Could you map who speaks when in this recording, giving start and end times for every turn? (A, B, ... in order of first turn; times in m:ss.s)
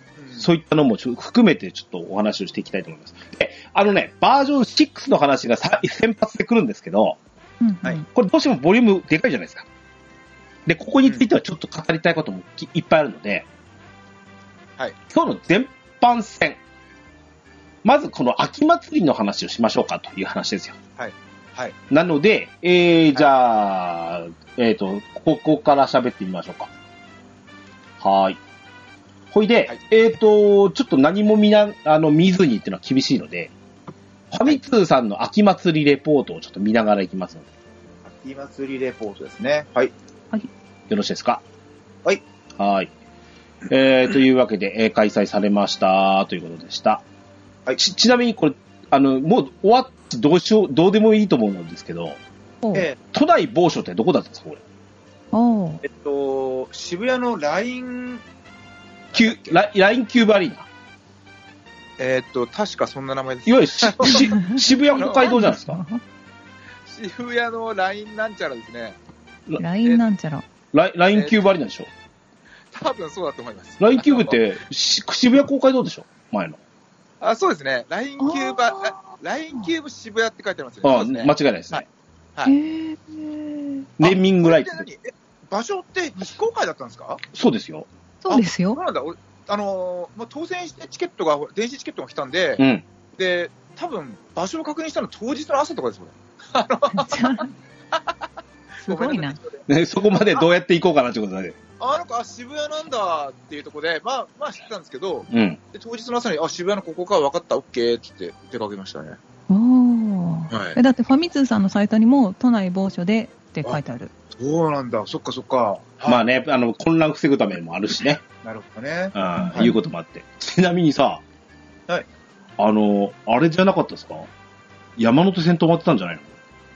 0:00.2-0:00.5 A
0:00.4-0:07.2 B
0:07.6-0:08.0 C
0:08.1-0:09.7 B
0:10.7-0:13.5 B
0:15.1-0:16.6 B
0:17.8-0:20.8 B
0:21.0-0:21.8 A
0:21.9-0:26.7 B
0:28.0-0:28.4 B
0:29.3-0:33.5 B
0:34.3-0:37.5 B
0:38.1-0:39.9 A
0:40.9-0:41.4 B
0:42.6-0:42.9 B
0:43.7-0:47.0 B
0:47.8-0:52.2 B
0:52.6-0:52.9 C
0:53.1-0:54.6 B
0:55.3-0:55.8 C
0:55.8-0:58.2 A
0:59.1-0:59.6 A
0:59.1-1:00.7 B
1:02.0-1:04.4 A
1:03.5-1:05.8 B
1:04.1-1:06.0 C
1:04.9-1:05.3 A
1:06.9-1:09.0 A
1:09.6-1:10.4 C
1:10.7-1:11.9 B
1:11.1-1:11.4 A
1:12.7-1:14.4 A
1:13.8-1:16.6 B
1:17.2-1:21.8 A
1:18.2-1:19.0 C
1:20.8-1:21.9 B
1:22.5-1:23.9 C
1:24.0-1:24.9 B
1:24.0-1:27.2 A
1:27.3-1:27.9 B
1:28.2-1:28.8 C
1:28.3-1:32.6 A
1:32.6-1:32.8 B
1:33.2-1:38.2 A
1:37.0-1:37.5 C
1:38.8-1:39.4 C
1:38.8-1:39.6 A
1:39.7-1:41.6 B
1:41.8-1:49.2 A
1:45.3-1:45.6 B
1:49.5-1:54.1 C
1:50.5-1:50.8 A
1:54.3-1:56.2 A
1:56.1-1:58.2 B
1:58.4-1:59.7 A
1:59.2-2:01.2 B
1:59.4-1:59.8 C
2:02.6-2:04.3 B
2:05.0-2:06.4 B